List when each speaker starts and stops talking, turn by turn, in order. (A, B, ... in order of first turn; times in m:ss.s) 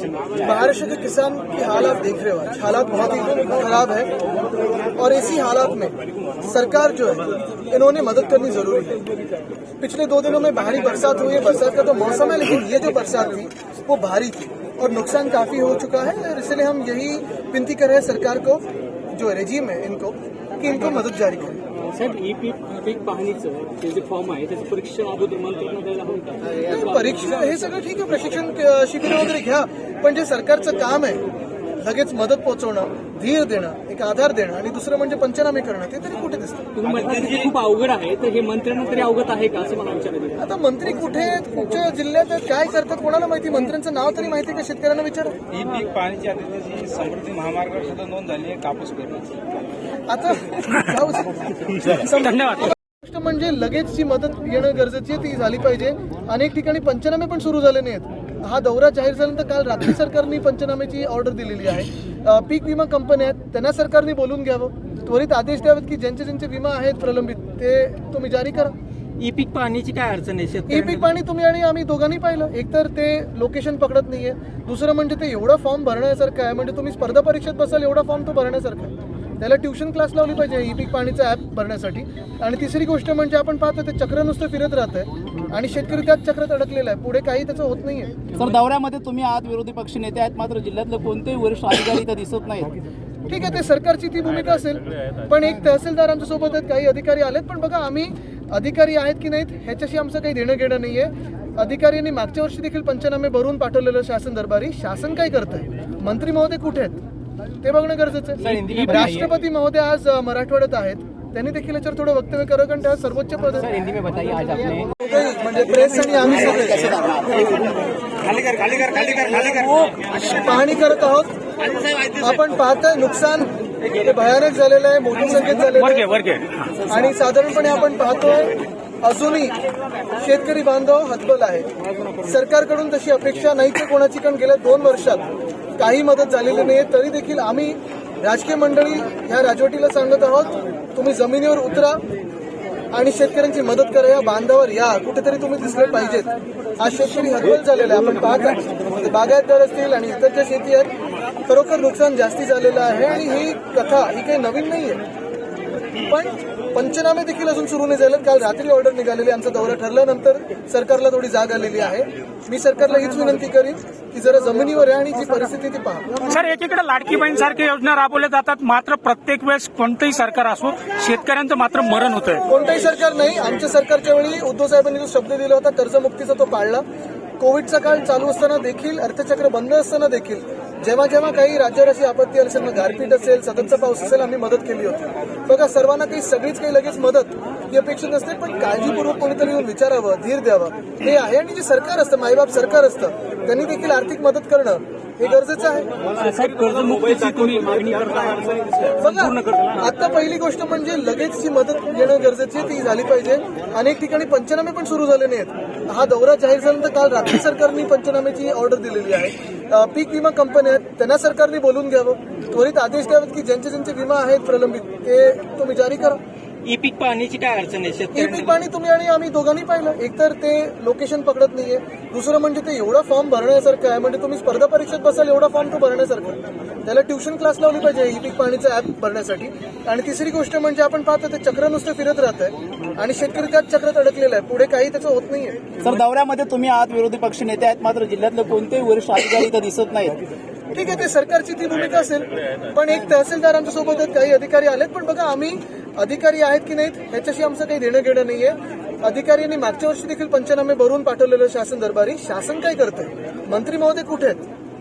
0:00.4-0:04.1 A
0:05.0-0:09.0 A
0:09.8-0:21.6 A
0:21.7-0:26.9 B
0:26.6-0:31.2 A
0:31.8-0:36.7 A
0:36.8-0:40.4 B
0:36.9-0:37.5 C
0:40.4-0:45.4 A
0:45.5-0:49.3 C
0:45.7-0:46.0 B
0:47.9-0:49.4 B
0:50.1-1:08.8 A
0:52.1-0:52.7 D
1:09.2-1:11.2 B
1:10.7-1:28.2 A
1:28.3-1:32.7 E
1:33.3-1:47.0 A
1:47.6-1:53.7 A
1:48.4-1:49.1 B
1:54.1-1:54.7 E
1:54.9-1:56.9 A
1:56.3-1:57.6 E
1:59.2-1:59.9 E
2:00.3-2:01.4 A
2:02.2-2:06.1 A
2:05.7-2:06.7 D
2:06.9-2:09.6 A
2:10.2-2:11.7 A
2:12.2-2:15.2 A
2:15.8-2:22.0 A
2:22.9-2:31.0 A
2:31.5-2:35.0 A
2:36.0-2:46.1 A
2:46.2-2:52.4 D
2:52.5-2:56.8 A
2:57.4-3:15.9 A
3:16.0-3:19.7 B
3:19.0-3:36.2 A
3:36.6-3:38.6 B
3:38.1-3:55.7 A
3:55.8-4:00.2 E
4:00.7-4:14.4 A